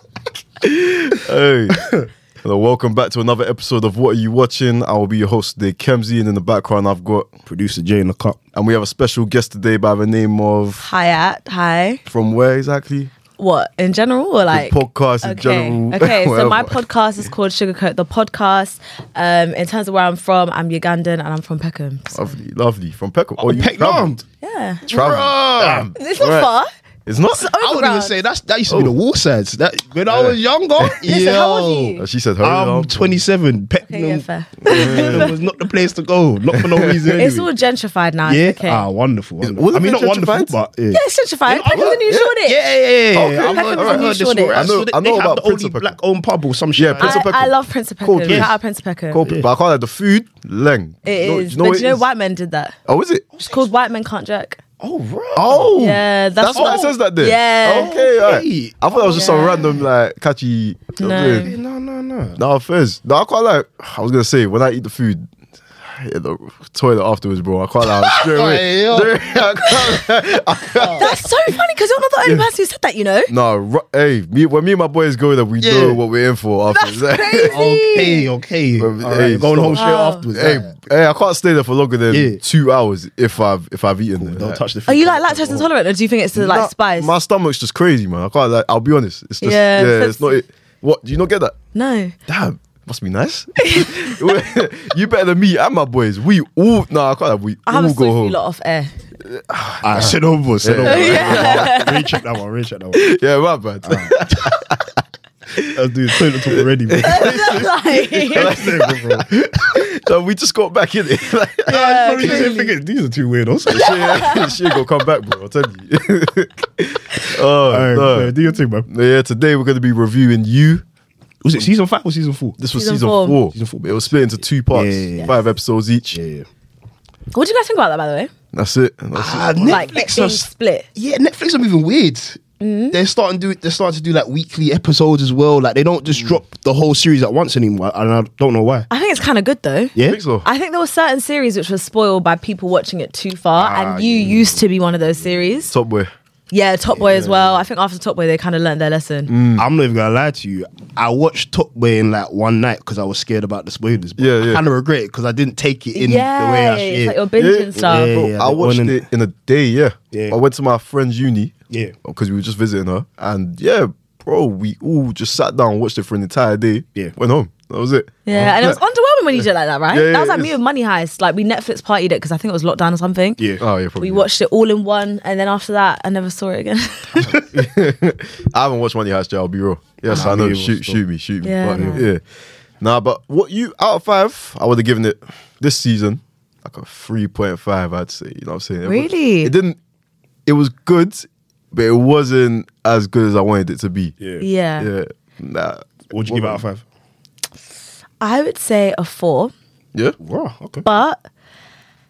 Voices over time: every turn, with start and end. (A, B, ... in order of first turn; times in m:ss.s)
0:00.6-0:01.8 A
0:02.4-0:07.3 A
0:07.5-0:08.4 B
0:08.5-0:10.8 A
0:10.8-0:12.0 C
0:12.0-0:13.1 A
0:13.4-0:22.4 C
0:14.5-0:16.8 A
0:22.1-0:24.1 A
0:23.4-0:24.2 B
0:24.4-0:24.9 C
0:24.9-0:25.9 B
0:24.9-0:26.5 A
0:25.9-0:26.7 C
0:27.0-0:27.5 A
0:27.3-0:28.1 C
0:27.6-0:37.5 B
0:30.1-0:31.0 A
0:31.0-0:32.0 C
0:32.0-0:33.2 A
0:33.9-0:35.4 C
0:34.7-0:35.3 A
0:36.5-0:37.2 A
0:37.1-0:38.9 C
0:38.2-0:47.2 B
0:39.4-0:40.5 A
0:40.9-0:42.6 C
0:41.7-0:42.3 A
0:43.1-0:45.9 A
0:43.4-0:44.7 C
0:46.8-0:48.5 A
0:47.0-0:49.3 C
0:48.2-0:48.5 B
0:49.1-0:52.0 A
0:49.2-0:49.5 B
0:51.0-0:52.8 C
0:52.9-0:53.2 A
0:53.3-0:53.7 B
0:53.5-0:54.6 C
0:54.8-0:55.7 B
0:55.3-1:01.5 A
0:55.8-0:57.9 C
0:56.5-0:56.9 B
0:57.8-0:59.7 B
0:59.0-0:59.8 C
1:01.0-1:01.6 C
1:01.4-1:02.4 B
1:02.4-1:05.3 A
1:05.9-1:11.2 A
1:07.8-1:09.2 B
1:10.7-1:11.1 B
1:10.7-1:13.3 C
1:12.2-1:12.5 A
1:13.3-1:17.6 A
1:15.6-1:16.0 B
1:16.7-1:18.3 C
1:17.4-1:20.7 B
1:18.8-1:24.6 A
1:19.7-1:20.2 C
1:22.1-1:22.4 B
1:24.2-1:25.7 B
1:24.9-1:27.1 C
1:26.3-1:31.6 A
1:29.4-1:30.4 C
1:31.7-1:32.2 C
1:32.3-1:38.4 A
1:33.6-1:34.3 C
1:37.6-1:39.0 C
1:39.2-1:41.9 A
1:39.8-1:43.0 B
1:40.8-1:42.2 C
1:42.9-1:45.0 A
1:43.8-1:44.2 B
1:45.5-1:52.5 A
1:45.6-1:49.3 B
1:47.0-1:48.6 C
1:51.7-1:52.7 C
1:51.7-1:54.0 B
1:53.7-1:58.4 A
1:53.7-1:54.8 C
1:57.6-1:58.9 B
1:58.9-2:00.8 A
2:01.4-2:02.6 B
2:02.6-2:06.2 A
2:02.7-2:03.4 C
2:03.5-2:04.1 B
2:04.7-2:05.3 B
2:06.1-2:06.4 B
2:07.3-2:08.3 C
2:08.5-2:09.9 A
2:09.1-2:18.9 B
2:09.7-2:10.8 C
2:12.6-2:13.0 C
2:18.9-2:25.7 C
2:19.9-2:20.2 B
2:20.0-2:20.5 A
2:23.6-2:24.6 B
2:25.7-2:26.1 A
2:26.5-2:29.3 C
2:26.9-2:27.4 B
2:29.3-2:29.6 A
2:29.6-2:37.2 B
2:34.2-2:34.6 A
2:36.0-2:38.1 C
2:37.4-2:41.5 A
2:37.8-2:39.0 B
2:40.1-2:40.4 B
2:41.7-2:42.0 B
2:42.0-2:48.8 A
2:48.2-2:53.4 C
2:49.9-2:50.6 A
2:53.6-2:54.3 A
2:54.0-2:57.4 C
2:57.5-3:02.2 A
3:00.0-3:01.0 B
3:01.4-3:02.0 C
3:01.7-3:02.0 B
3:02.8-3:09.8 A
3:08.8-3:09.5 C
3:10.4-3:14.2 A
3:14.2-3:14.4 B
3:14.4-3:14.9 C
3:14.8-3:16.6 A
3:16.1-3:16.8 B
3:18.2-3:19.5 C
3:20.2-3:20.8 B
3:20.8-3:21.2 C